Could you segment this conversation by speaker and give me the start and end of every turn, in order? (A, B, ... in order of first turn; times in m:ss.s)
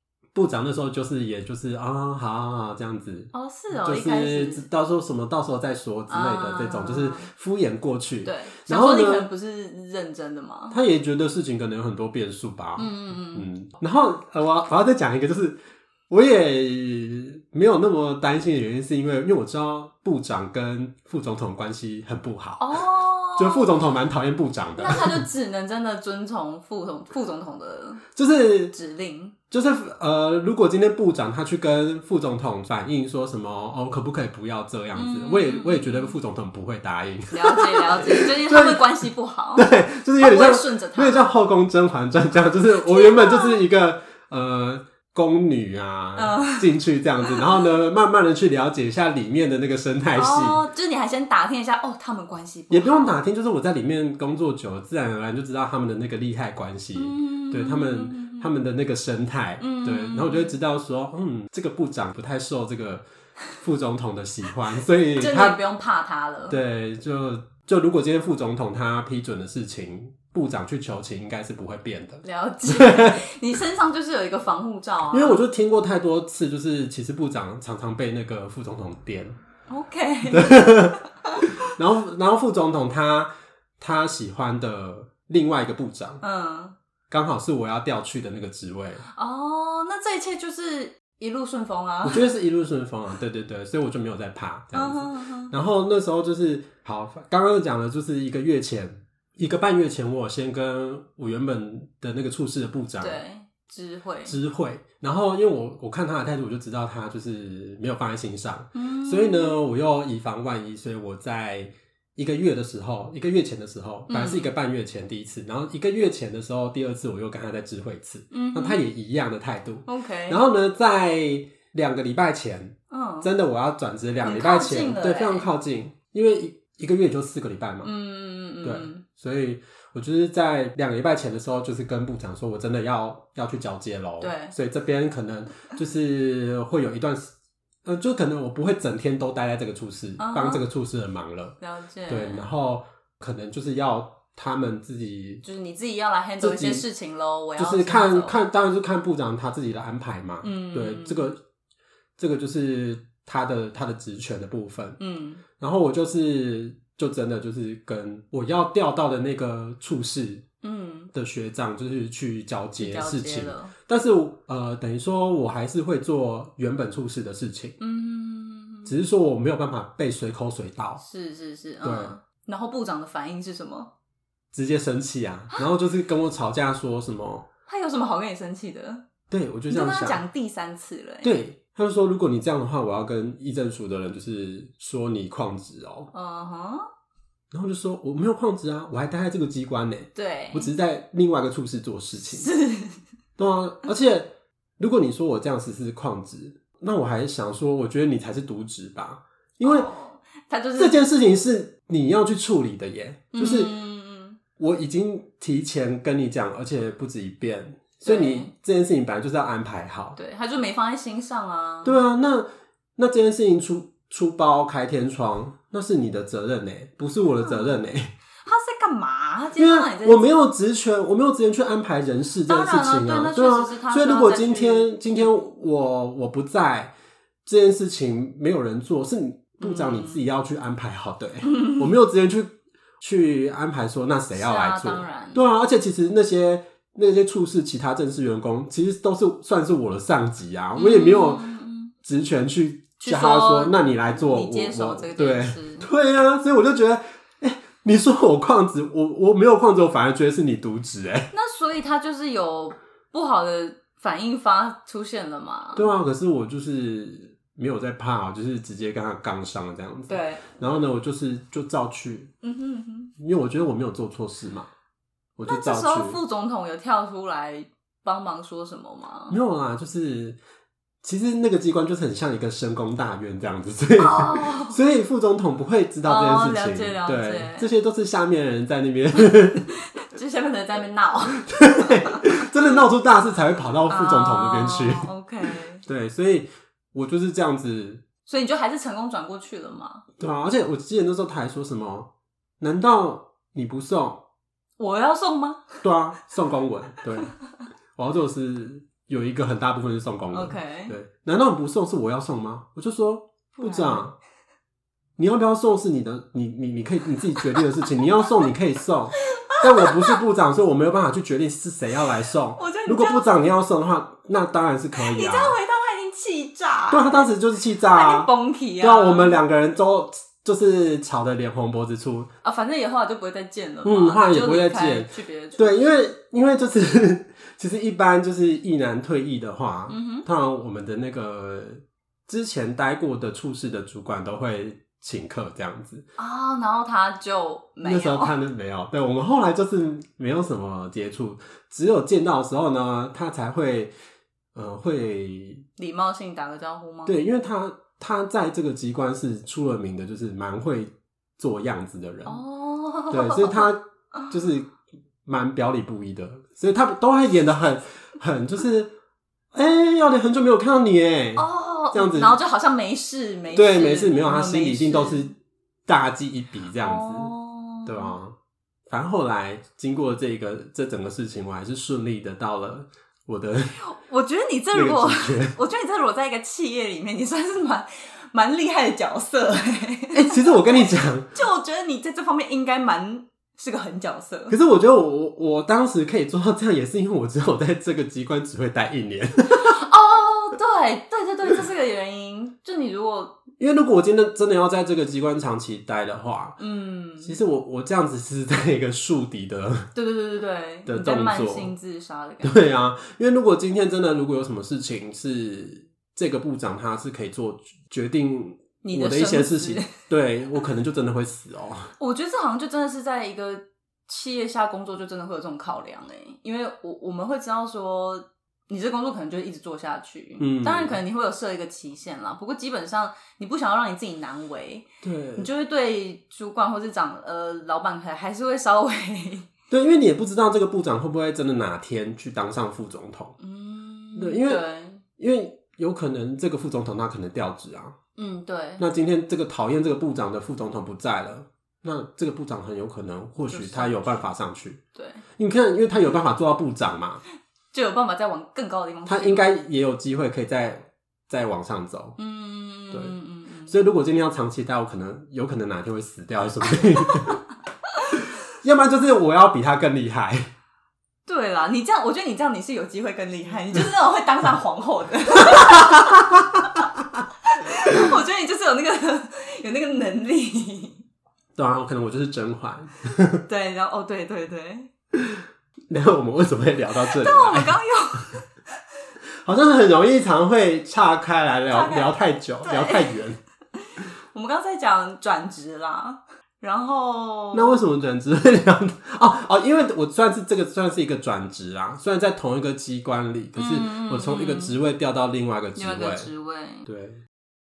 0:00.4-0:09.3 A
0:03.3-0:04.7 B
0:06.1-0:07.3 B
0:08.2-0:10.8 B
0:10.7-0:15.6 A
0:12.8-0:13.5 B
0:16.1-0:22.8 A
0:22.6-0:23.8 B
0:23.3-0:25.2 A
0:24.8-0:28.0 B
0:28.2-0:28.8 A
0:28.7-0:29.4 B
0:29.5-0:39.0 A
0:35.0-0:36.2 B
0:37.3-0:41.3 B
0:39.6-0:50.6 A
0:42.8-0:43.6 B
0:46.2-0:46.7 B
0:50.2-0:53.2 B
0:52.7-1:03.0 A
0:57.0-0:58.5 B
0:59.6-1:00.6 B
1:03.6-1:05.6 A
1:05.2-1:06.6 B
1:06.5-1:13.2 A
1:12.2-1:15.4 B
1:15.1-1:19.4 A
1:19.7-1:20.7 B
1:20.3-1:26.2 A
1:21.2-1:21.6 B
1:26.2-1:26.8 B
1:27.1-1:29.0 A
1:29.1-1:32.2 B
1:32.0-1:43.2 A
1:34.7-1:35.5 B
1:43.0-1:44.4 B
1:44.3-2:07.9 A
1:48.8-1:49.6 B
1:54.1-1:54.5 B
1:58.3-1:58.8 B
1:59.9-2:00.4 B
2:02.9-2:03.3 B
2:04.2-2:05.5 B
2:07.8-2:09.0 B
2:08.6-2:17.3 A
2:14.2-2:14.5 B
2:17.8-2:21.6 A
2:20.2-2:20.6 B
2:21.6-2:22.5 B
2:22.1-2:25.4 A
2:25.4-2:28.4 B
2:26.4-2:26.8 A
2:27.6-2:31.4 A
2:30.4-2:31.3 B
2:32.2-2:35.0 A
2:35.0-2:35.4 B
2:35.6-2:40.4 A
2:40.6-2:41.1 B
2:41.1-2:47.8 A
2:42.8-2:43.7 B
2:47.8-2:48.9 B
2:48.8-2:51.0 A
2:51.0-2:53.9 B
2:51.8-2:52.1 A
2:54.5-2:57.5 A
2:57.7-2:59.0 B
2:59.3-3:00.2 A
2:59.7-3:01.4 B
3:01.2-3:06.1 A
3:06.1-3:06.8 B
3:07.5-3:12.5 A
3:10.2-3:10.7 B
3:12.2-3:13.0 B
3:13.4-3:19.9 A
3:19.6-3:21.0 B
3:20.8-3:23.7 A
3:23.3-3:24.4 B
3:24.6-3:30.2 A
3:28.0-3:28.5 B
3:30.2-3:32.0 B
3:31.8-3:38.2 A
3:37.4-3:37.8 B
3:38.4-3:40.4 B
3:39.6-3:46.9 A
3:42.5-3:45.3 B
3:47.4-4:01.4 A
3:49.6-3:50.2 B
3:51.5-3:51.9 B
3:54.3-3:55.4 B
4:00.8-4:01.9 B
4:02.0-4:11.3 A
4:03.0-4:05.9 B
4:11.3-4:15.9 B
4:15.8-4:22.3 A
4:20.1-4:20.4 B
4:22.4-4:23.1 B
4:23.2-4:24.7 A
4:25.4-4:26.2 A
4:25.5-4:29.4 B
4:29.3-4:30.4 A
4:31.0-4:39.7 A
4:34.0-4:34.8 B
4:36.0-4:37.7 B
4:39.9-4:42.8 B
4:41.4-4:45.1 A
4:43.9-4:45.8 B
4:45.8-4:48.0 A
4:48.3-4:50.0 B
4:50.2-4:52.1 A
4:52.6-4:54.2 A
4:54.8-4:55.8 B
4:55.8-4:57.3 A
4:58.0-5:04.2 A
5:00.3-5:01.0 B
5:03.6-5:04.1 B
5:05.2-5:15.6 A
5:09.4-5:10.2 B
5:12.6-5:13.2 B
5:15.0-5:17.3 B
5:16.9-5:22.3 A
5:17.8-5:19.4 B
5:22.4-5:26.0 B
5:23.8-5:36.1 A
5:29.9-5:30.3 B
5:36.2-5:38.3 B
5:37.8-5:43.9 A
5:44.5-5:45.7 A
5:45.8-5:47.2 B
5:47.1-5:52.4 A
5:52.3-5:54.3 B
5:53.1-5:58.9 A
5:59.5-6:02.3 A
6:01.4-6:05.3 B
6:03.5-6:05.4 A
6:05.9-6:07.3 A
6:06.8-6:08.2 B
6:07.8-6:08.4 A
6:08.9-6:13.8 A
6:13.8-6:24.6 B
6:14.7-6:15.6 A
6:20.1-6:21.3 A
6:24.5-6:29.8 A
6:29.5-6:33.4 B
6:33.6-6:36.6 A
6:36.6-6:37.4 B
6:37.2-6:39.9 A
6:40.0-6:42.6 B
6:40.9-6:41.7 A
6:42.4-6:51.9 A
6:48.8-6:49.9 B
6:52.0-7:09.5 B
7:00.4-7:01.0 A
7:05.0-7:05.5 A
7:09.7-7:13.4 A
7:13.4-7:15.0 B
7:14.2-7:14.6 A
7:15.2-7:18.0 A
7:18.2-7:18.8 B
7:18.8-7:24.8 A
7:23.5-7:24.3 B
7:25.0-7:25.2 B
7:25.4-7:27.2 A
7:27.7-7:29.5 B
7:29.1-7:32.2 A
7:32.2-7:33.8 B
7:33.7-7:37.4 A
7:37.1-7:37.4 B
7:38.1-7:40.5 A
7:41.3-7:46.3 B
7:45.4-7:46.7 A
7:47.4-7:51.0 B
7:51.6-7:53.4 A
7:53.5-7:54.9 B
7:55.2-7:57.8 A
7:57.0-7:58.5 B
7:59.4-8:03.4 A
8:01.7-8:03.2 B
8:03.8-8:07.8 B
8:07.5-8:16.3 A
8:13.6-8:14.8 B
8:15.8-8:16.9 B
8:16.9-8:17.2 A